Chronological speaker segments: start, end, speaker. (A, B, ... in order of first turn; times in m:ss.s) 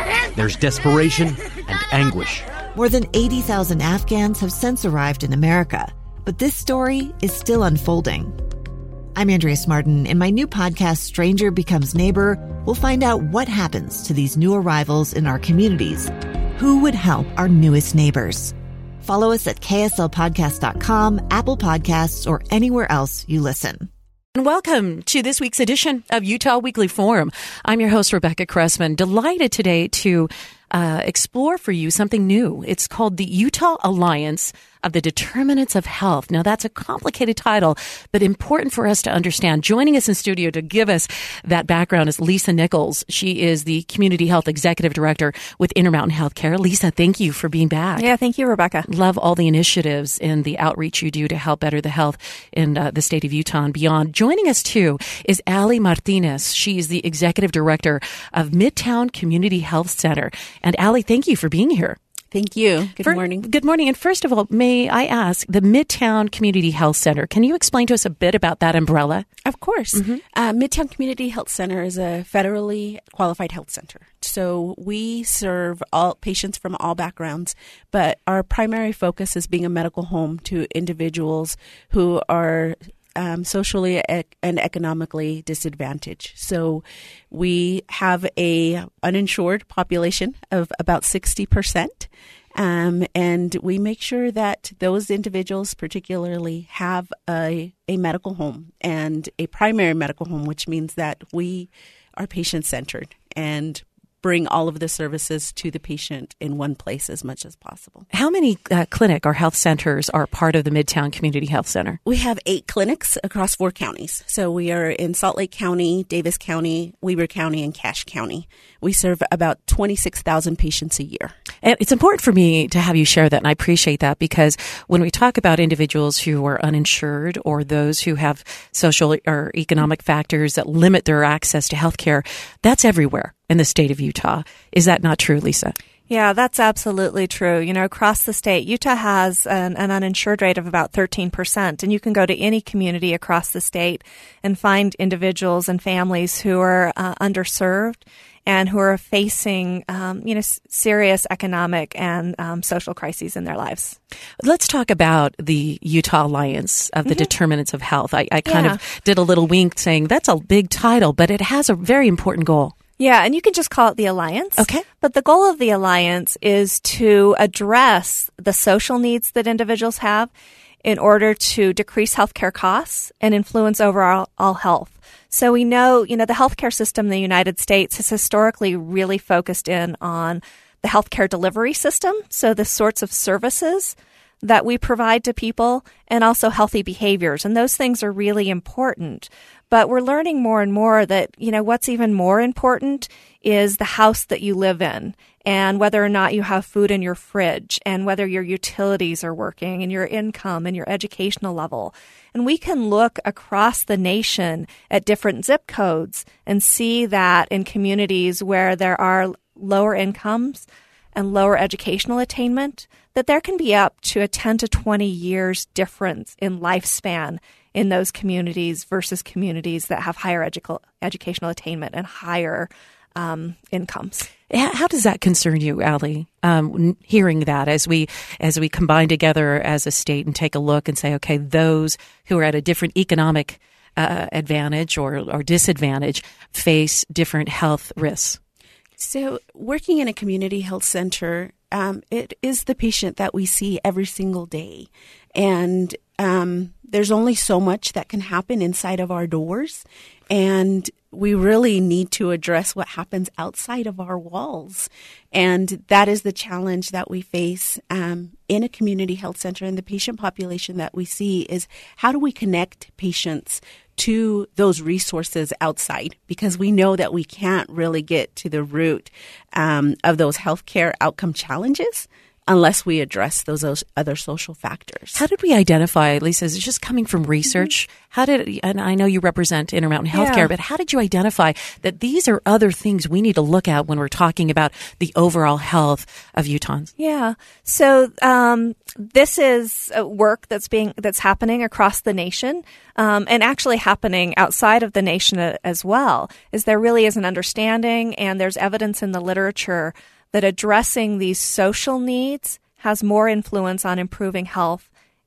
0:00.4-0:02.5 A
0:02.7-0:08.3 B
0:09.1-0:23.9 B
0:24.3-0:48.1 C
0:48.0-0:48.9 D
0:48.8-1:02.0 C
1:02.3-1:03.5 E
1:03.0-1:09.3 C
1:09.4-1:48.1 E
1:09.9-1:10.2 C
1:48.1-1:52.0 C
1:52.0-2:01.3 E
2:01.6-2:15.8 C
2:16.1-2:34.0 D
2:34.4-2:42.7 C
2:38.5-2:38.8 D
2:43.0-2:50.3 D
2:44.6-2:44.8 C
2:50.8-3:44.3 D
3:44.5-3:58.4 C
3:59.0-4:35.2 E
4:35.2-4:46.9 C
4:40.1-4:40.5 D
4:47.0-5:04.9 D